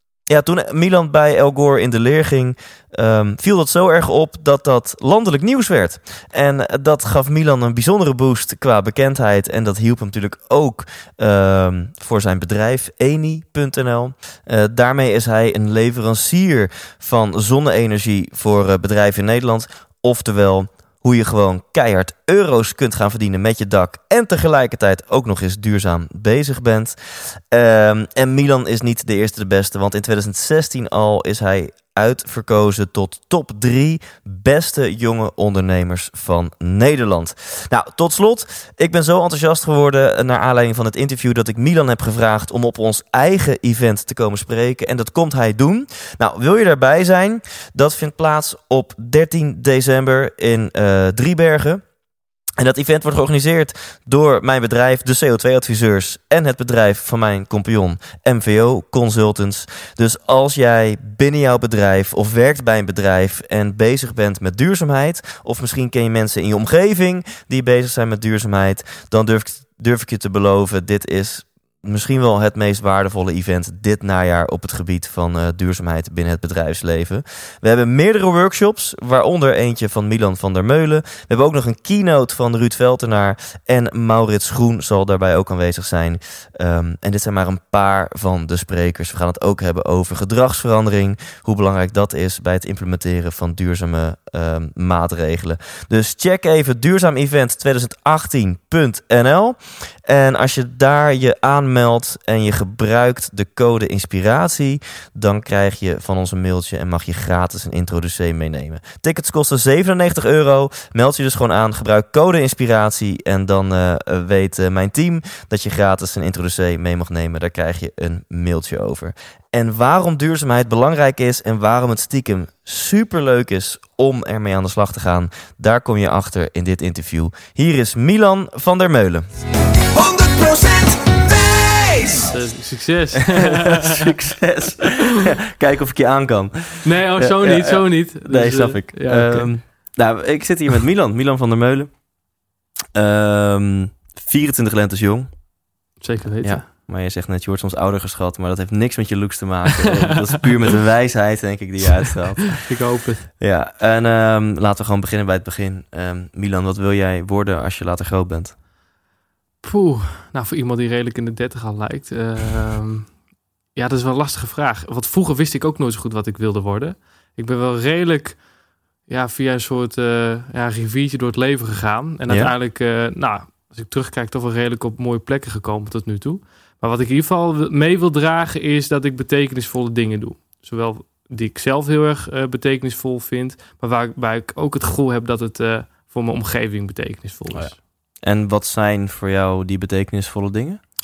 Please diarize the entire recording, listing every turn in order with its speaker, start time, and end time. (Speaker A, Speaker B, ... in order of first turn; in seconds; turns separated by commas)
Speaker A: 0.3-51.8, Speaker A: 52.6-129.2, Speaker B: 129.9-132.3, Speaker C: 132.3-134.1, Speaker A: 133.2-141.9, Speaker C: 136.8-139.5, Speaker A: 142.9-145.3, Speaker C: 146.0-146.7, Speaker A: 146.4-152.6, Speaker C: 152.4-153.3, Speaker A: 153.4-158.5, Speaker C: 159.6-163.1, Speaker C: 163.7-168.4, Speaker C: 169.1-187.8, Speaker A: 172.3-172.5, Speaker A: 187.5-190.8